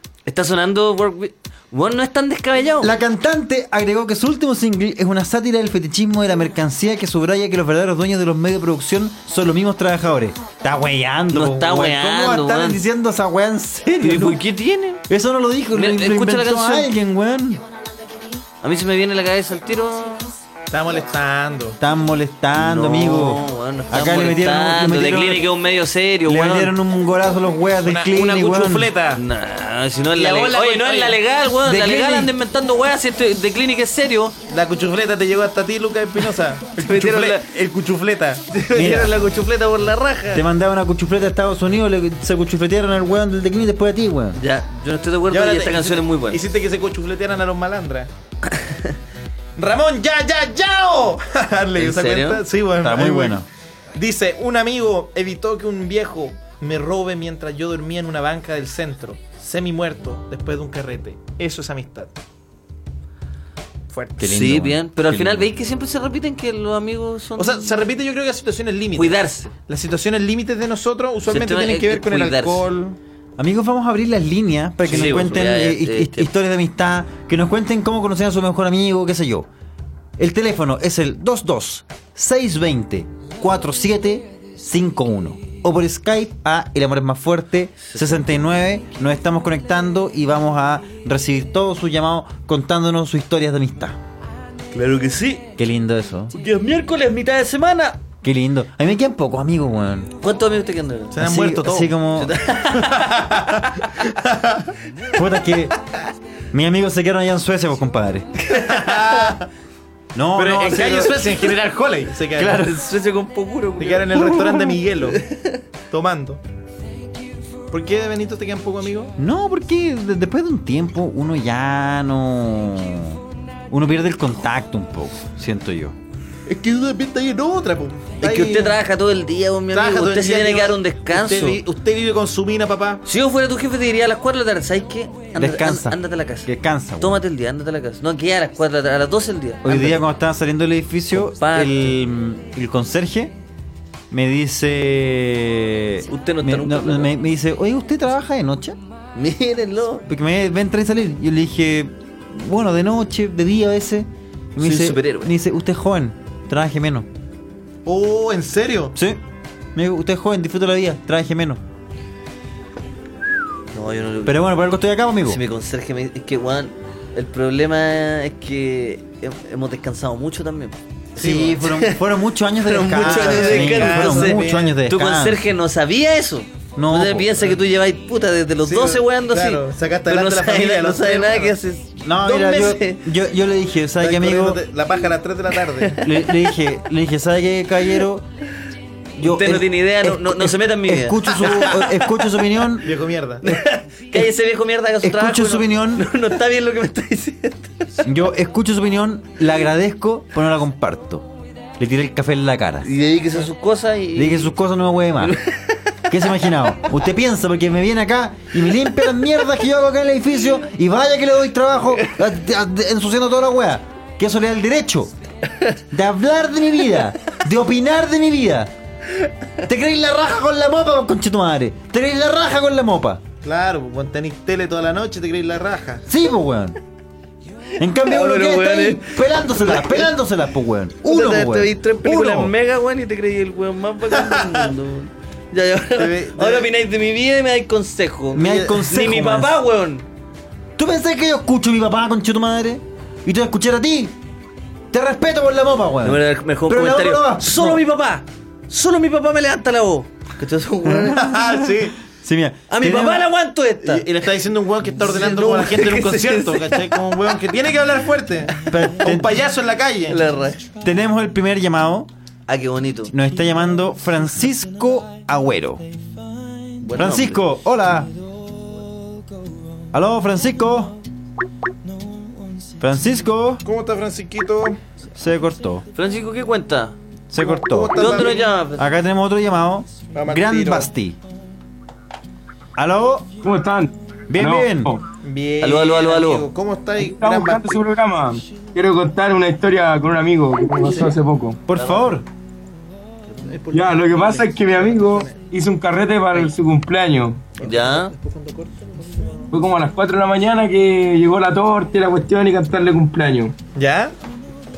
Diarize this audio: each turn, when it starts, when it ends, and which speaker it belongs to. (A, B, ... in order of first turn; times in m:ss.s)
0:00.2-0:02.9 A
0:02.8-0:14.4 B
0:11.3-0:12.8 A
0:14.0-0:15.0 A
0:15.1-0:17.6 B
0:15.7-0:16.9 A
0:18.6-0:20.3 A
0:20.7-0:21.8 C
0:21.8-0:25.5 B
0:22.6-0:26.7 A
0:26.2-0:28.9 B
0:27.8-0:29.2 C
0:29.1-0:34.4 A
0:30.1-0:31.2 C
0:31.6-0:32.3 B
0:34.5-0:38.6 C
0:36.8-0:37.4 A
0:38.5-0:40.4 A
0:38.7-0:39.1 B
0:40.3-0:44.4 B
0:44.4-0:46.4 A
0:45.3-0:48.1 C
0:48.5-0:48.9 A
0:49.6-0:53.4 C
0:51.8-0:52.4 A
0:52.8-0:53.5 B
0:53.9-1:02.1 C
1:03.9-1:04.2 C
1:04.2-1:05.5 B
1:04.2-1:07.8 A
1:07.4-1:13.0 C
1:09.0-1:09.5 A
1:11.3-1:12.6 A
1:13.4-1:19.5 B
1:14.8-1:16.3 A
1:20.2-1:34.0 B
1:27.9-1:28.4 A
1:34.7-1:35.5 A
1:35.6-1:36.3 B
1:36.3-1:38.0 A
1:38.2-1:40.1 B
1:40.2-1:41.2 A
1:41.1-1:41.9 C
1:41.2-1:42.5 B
1:42.2-1:43.1 A
1:42.6-1:44.7 C
1:45.1-1:45.7 B
1:46.5-1:48.3 B
1:48.5-1:49.3 A
1:48.5-1:49.5 C
1:50.1-1:51.2 B
1:50.3-1:52.7 C
1:52.4-1:52.9 B
1:52.6-1:55.6 A
1:53.8-1:55.2 C
1:55.9-1:56.4 C
1:57.7-1:59.1 C
1:59.2-2:06.0 B
2:06.5-2:08.8 C
2:08.2-2:11.6 A
2:09.7-2:13.0 C
2:13.0-2:20.0 A
2:15.4-2:17.2 B
2:19.6-2:23.3 B
2:21.2-2:21.9 A
2:24.1-2:28.8 B
2:26.1-2:27.1 A
2:29.1-2:30.0 A
2:30.0-2:37.1 B
2:34.6-2:35.3 A
2:37.8-2:38.9 C
2:38.9-2:39.2 B
2:39.7-2:41.6 B
2:43.7-2:44.4 A
2:44.2-2:45.4 B
2:45.2-2:52.0 A
2:51.2-2:55.5 B
2:51.2-2:51.5 C
2:52.6-3:03.0 A
2:53.0-2:54.7 C
2:56.8-2:57.5 B
2:58.6-3:01.5 C
3:02.0-3:04.6 B
3:04.0-3:06.1 C
3:06.0-3:08.2 B
3:09.2-3:12.9 B
3:09.2-3:12.1 A
3:12.8-3:13.4 C
3:13.4-3:17.9 A
3:15.0-3:16.1 B
3:18.0-3:21.3 B
3:21.8-3:22.9 B
3:22.8-3:24.5 A
3:24.1-3:25.4 B
3:25.2-3:25.8 A
3:26.1-3:35.1 B
3:35.9-3:38.7 B
3:39.6-3:43.2 B
3:43.4-3:46.0 C
3:46.1-3:46.8 B
3:47.8-3:52.5 B
3:48.0-3:50.1 A
3:51.0-4:00.0 A
3:54.2-3:54.6 C
3:56.0-3:56.7 C
3:58.3-3:59.6 B
4:00.8-4:04.1 B
4:04.9-4:07.8 B
4:06.0-4:11.3 A
4:11.0-4:11.4 B
4:11.2-4:12.0 C
4:12.2-4:13.3 B
4:12.7-4:14.0 A
4:13.8-4:20.2 C
4:14.9-4:17.0 A
4:18.7-4:19.3 B
4:20.1-4:20.6 A
4:20.8-4:22.1 B
4:22.5-4:23.1 A
4:23.1-4:25.8 B
4:26.8-4:27.4 A
4:26.9-4:28.1 B
4:29.9-4:31.0 B
4:32.8-4:33.6 B
4:33.6-4:34.8 C
4:35.2-4:35.8 B
4:35.9-4:37.0 A
4:37.3-4:41.2 B
4:37.4-4:38.5 C
4:37.9-4:38.9 A
4:40.1-4:40.9 C
4:42.8-4:43.3 B
4:43.4-4:45.0 D
4:44.3-4:45.0 B
4:45.2-4:47.8 C
4:45.6-4:46.5 A
4:47.0-4:51.6 D
4:51.7-4:52.2 B
4:53.4-4:55.3 C
4:53.7-4:57.4 D
4:57.6-4:59.1 C
4:57.6-4:58.1 A
4:59.5-5:03.6 D
5:03.7-5:04.1 C